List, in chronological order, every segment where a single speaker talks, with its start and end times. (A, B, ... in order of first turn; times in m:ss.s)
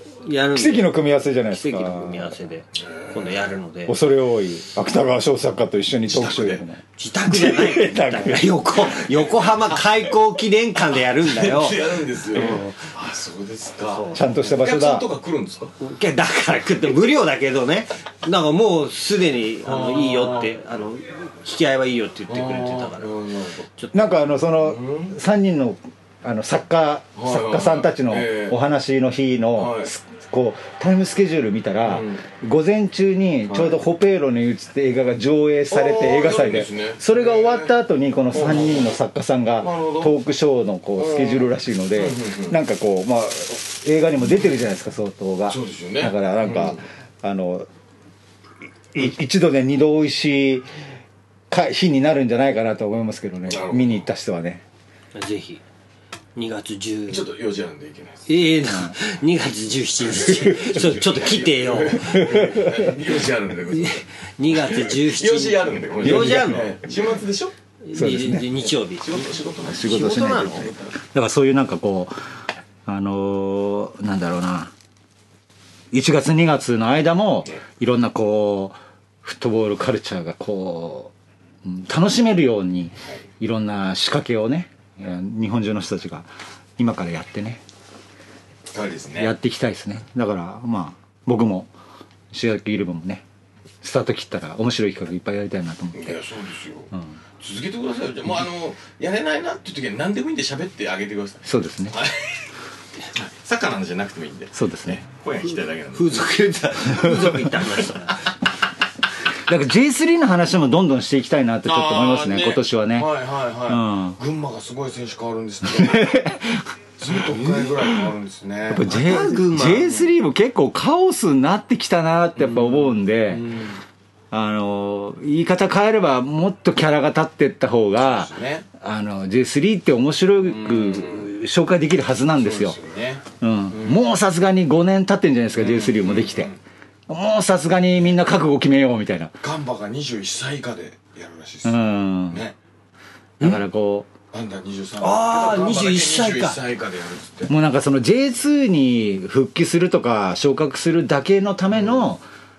0:00.2-0:03.9 A
0:00.5-0:02.4 B
0:02.8-0:03.5 C
0:03.9-0:08.5 B
0:06.0-0:06.6 C
0:07.0-0:12.9 A
0:09.1-0:09.6 C
0:10.9-0:15.7 C
0:13.9-0:14.4 A
0:14.1-0:15.1 B
0:15.8-0:23.1 A
0:19.6-0:20.5 C
0:22.3-0:23.7 C
0:23.8-0:24.1 A
0:23.9-0:47.7 B
0:24.6-0:25.1 C
0:27.2-0:28.6 C
0:29.6-0:29.9 C
0:31.8-0:32.2 C
0:33.5-0:33.8 C
0:35.7-0:37.7 C
0:38.3-0:38.9 C
0:39.6-0:40.1 C
0:41.0-0:42.6 C
0:45.5-0:46.8 C
0:48.9-0:50.7 B
0:51.5-0:54.6 B
0:53.5-0:54.0 C
0:55.1-0:55.6 A
0:56.4-0:57.3 A
0:57.1-0:58.5 C
0:58.3-1:02.8 A
1:00.0-1:07.5 C
1:02.2-1:02.8 B
1:03.7-1:06.7 A
1:06.0-1:06.6 B
1:07.8-1:10.7 A
1:07.9-1:08.5 B
1:09.0-1:10.9 C
1:09.7-1:12.1 B
1:12.8-1:14.7 B
1:15.9-1:21.1 B
1:21.6-1:27.6 B
1:28.7-1:29.3 C
1:29.2-1:31.7 B
1:32.3-1:33.2 B
1:33.8-1:36.2 B
1:35.9-1:42.4 C
1:41.4-1:42.0 B
1:43.1-1:46.4 C
1:44.5-1:45.0 B
1:45.9-1:48.2 A
1:46.8-1:47.5 B
1:49.5-1:53.1 B
1:51.6-1:56.1 C
1:53.7-1:54.2 B
1:55.6-1:56.6 B
1:57.0-1:59.0 C
1:58.7-2:03.5 B
1:58.8-2:00.1 A
2:02.4-2:03.8 C
2:04.3-2:12.8 B
2:08.0-2:08.6 C
2:10.4-2:11.3 C
2:12.4-2:14.0 C
2:13.4-2:16.5 B
2:15.6-2:16.6 C
2:17.1-2:19.4 B
2:19.4-2:22.6 C
2:21.6-2:22.4 B
2:23.4-2:24.1 B
2:24.3-2:27.5 C
2:25.0-2:26.6 A
2:27.5-2:32.2 B
2:31.7-2:32.1 C